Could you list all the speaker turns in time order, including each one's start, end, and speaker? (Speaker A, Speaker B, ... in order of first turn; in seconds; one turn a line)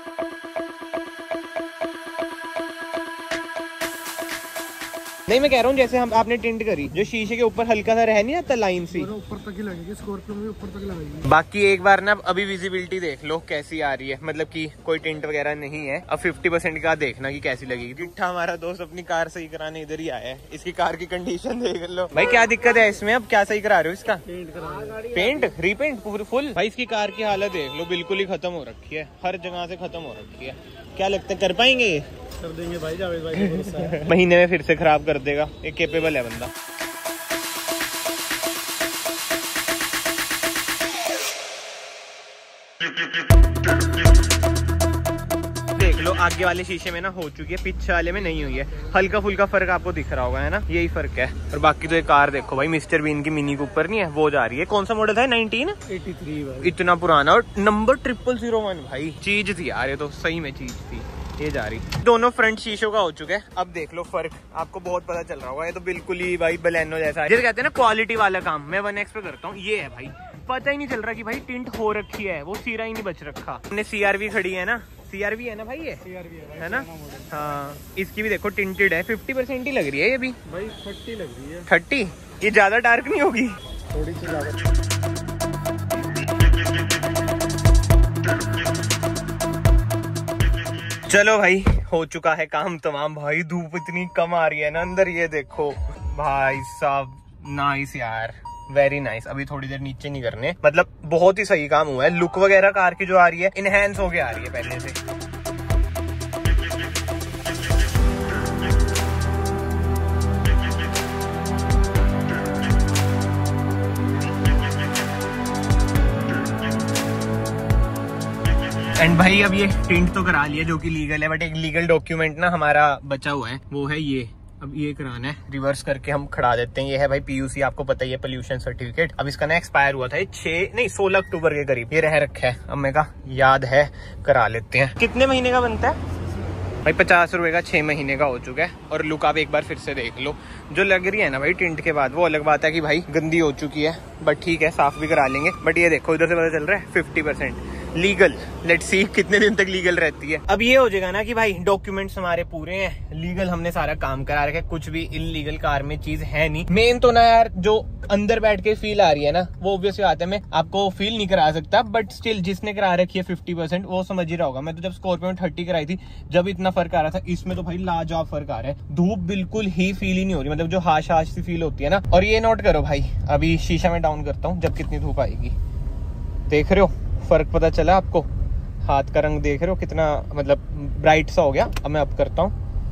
Speaker A: 5.3-9.1
Speaker B: 9.0-11.3
Speaker A: 11.2-24.2
Speaker B: 24.3-25.1
Speaker A: 24.9-32.1
Speaker B: 32.4-34.0
Speaker A: 33.3-36.5
Speaker A: 45.8-55.8
Speaker B: 55.9-56.7
Speaker A: 56.6-80.4
Speaker B: 76.1-77.3
Speaker B: 80.5-81.7
Speaker A: 81.7-83.6
Speaker B: 83.9-84.7
Speaker A: 91.0-105.0
Speaker A: 118.9-136.0
Speaker A: 136.8-175.6
Speaker A: 176.5-178.3
Speaker A: 178.8-182.6